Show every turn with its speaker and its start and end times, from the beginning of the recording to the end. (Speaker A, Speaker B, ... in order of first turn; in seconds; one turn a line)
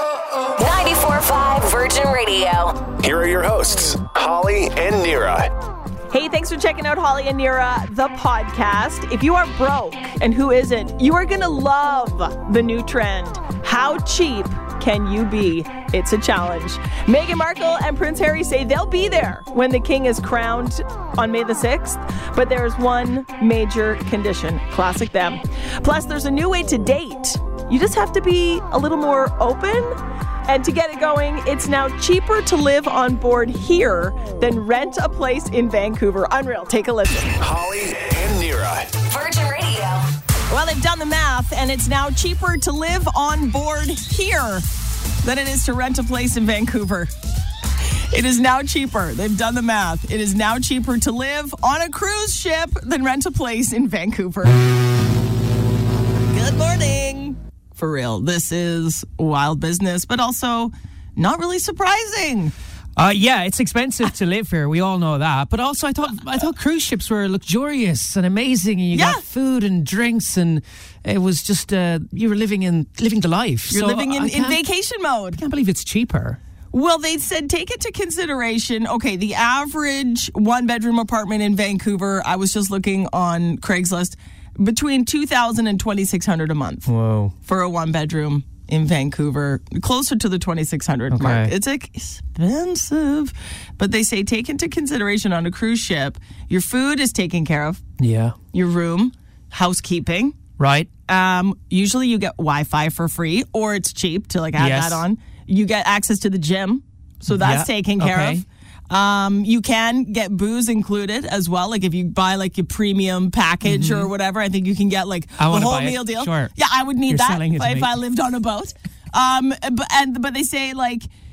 Speaker A: 0.6-2.9
Speaker B: 3.0-5.5
Speaker C: 6.1-37.4
Speaker B: 37.4-38.9
Speaker A: 39.1-40.1
Speaker C: 40.5-44.7
Speaker C: 45.2-47.1
Speaker C: 48.1-54.6
Speaker C: 56.3-62.5
Speaker D: 63.0-74.6
Speaker C: 68.9-69.2
Speaker C: 73.7-75.4
Speaker D: 75.3-76.4
Speaker C: 76.7-86.9
Speaker D: 86.9-87.3
Speaker C: 87.4-97.8
Speaker D: 91.1-91.5
Speaker D: 98.0-98.4
Speaker C: 98.5-100.4
Speaker D: 100.6-100.9
Speaker C: 101.1-121.1
Speaker D: 104.6-105.0
Speaker D: 107.3-108.5
Speaker D: 113.6-114.1
Speaker D: 115.4-116.5
Speaker D: 117.1-118.0